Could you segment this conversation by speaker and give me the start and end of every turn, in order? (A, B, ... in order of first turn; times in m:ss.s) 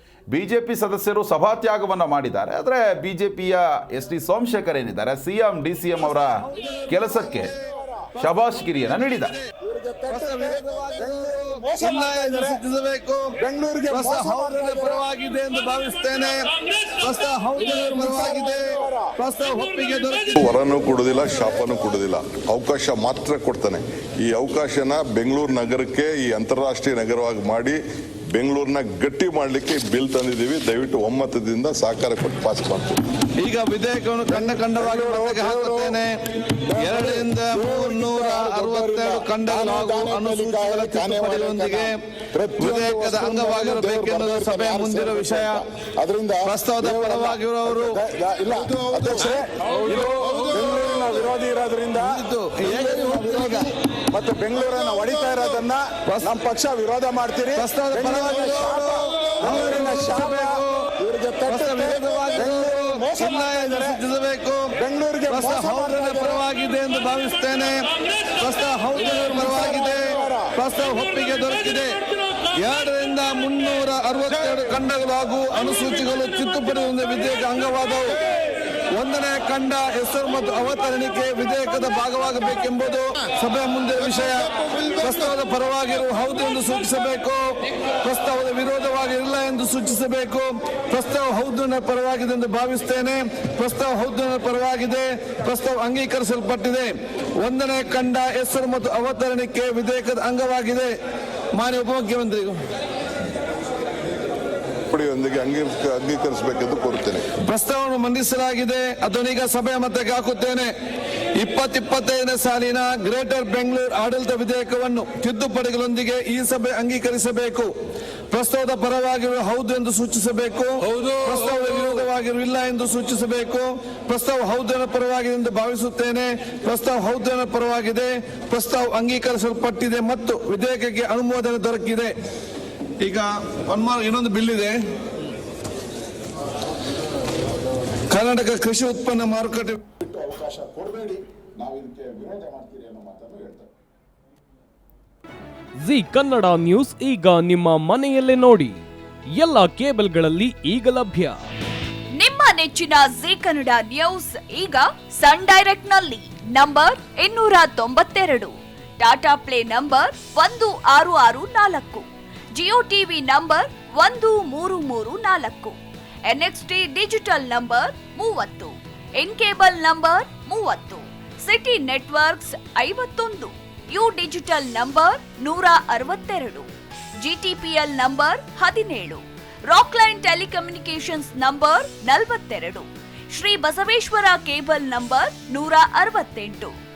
0:00.3-0:07.5 A
0:06.0-0:09.5 B
0:07.5-0:08.1 C
0:08.2-0:09.3 A
0:09.6-0:12.6 C
0:10.1-0:20.5 B
0:13.4-0:15.0 C
0:17.6-0:19.1 C
0:20.3-0:33.1 D
0:33.4-0:42.0 B
0:34.2-0:36.0 C
0:36.6-1:04.0 C
0:42.6-0:45.6 B
0:46.4-0:48.0 B
0:49.1-0:50.6 B
0:51.9-0:53.7 B
0:56.0-0:56.4 B
0:57.5-1:00.9 B
1:01.4-1:12.0 B
1:04.8-1:06.4 C
1:08.9-1:10.5 C
1:12.5-1:18.2 B
1:18.9-1:40.9 B
1:41.5-1:42.6 B
1:44.9-1:47.3 D
1:47.4-1:50.7 B
1:51.4-1:57.7 B
1:58.3-2:12.1 B
2:13.0-2:14.8 B
2:18.1-2:19.8 B
2:20.0-2:23.7 C
2:25.8-2:31.4 E
2:32.2-2:45.8 F
2:46.3-2:56.7 F
2:57.2-3:06.7 F